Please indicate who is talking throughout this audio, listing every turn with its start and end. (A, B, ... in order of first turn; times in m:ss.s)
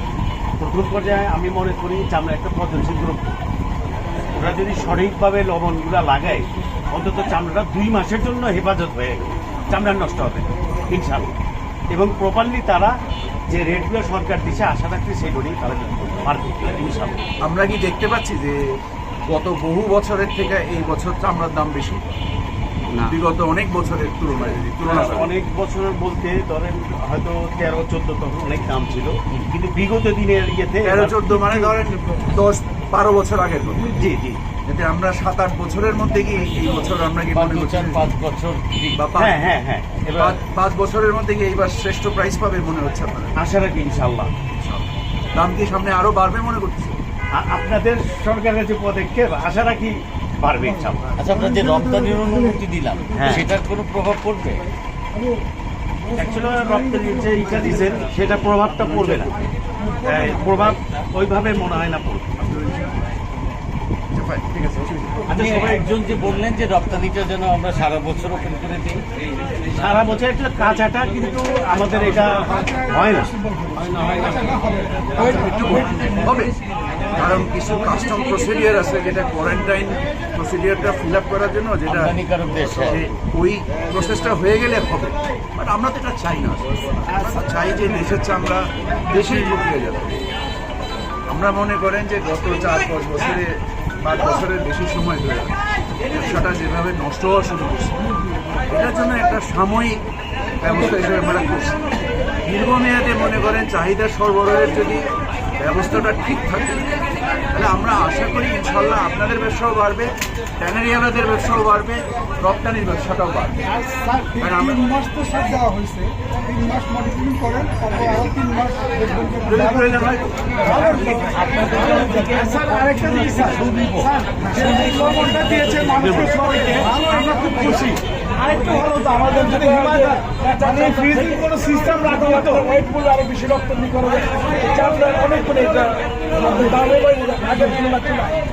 0:00.6-0:03.3 A
0:04.4-0:11.3 A
0:11.9-0:12.9 A
0:13.5-0:17.2 A
0:17.4-0:18.6 B
0:19.3-0:22.0 B
0:23.1-0:25.3 B
0:24.8-0:31.6 A
0:30.8-0:34.0 B
0:33.9-0:34.4 A
0:34.7-0:38.0 B
0:37.3-0:39.0 C
0:39.0-0:39.4 B
0:39.2-0:40.4 A
0:40.2-0:43.3 B
0:43.4-0:44.3 A
0:44.6-0:47.0 B
0:47.4-0:51.2 A
0:51.2-0:54.7 C
0:51.3-0:52.2 D
0:53.2-0:53.5 A
0:56.2-0:59.3 A
1:00.0-1:02.7 A
1:04.1-1:05.2 B
1:05.3-1:05.9 A
1:05.3-1:09.0 C
1:09.7-1:13.4 A
1:12.4-1:12.8 D
1:13.5-1:15.0 D
1:15.2-1:16.6 B
1:17.1-1:22.2 B
1:21.9-1:23.0 C
1:22.7-1:30.2 B
1:31.3-1:35.6 B
1:36.1-1:38.0 B
1:38.7-1:40.0 B
1:40.6-1:41.8 B
1:42.5-1:45.0 B
1:45.6-1:47.0 B
1:47.5-1:53.6 B
1:53.8-1:54.2 A
1:54.4-1:54.8 B
1:54.7-2:00.0 D
1:59.4-2:00.3 B
2:00.6-2:08.0 A
2:00.8-2:02.4 D
2:01.0-2:02.3 C
2:04.5-2:18.4 D
2:09.4-2:12.7 A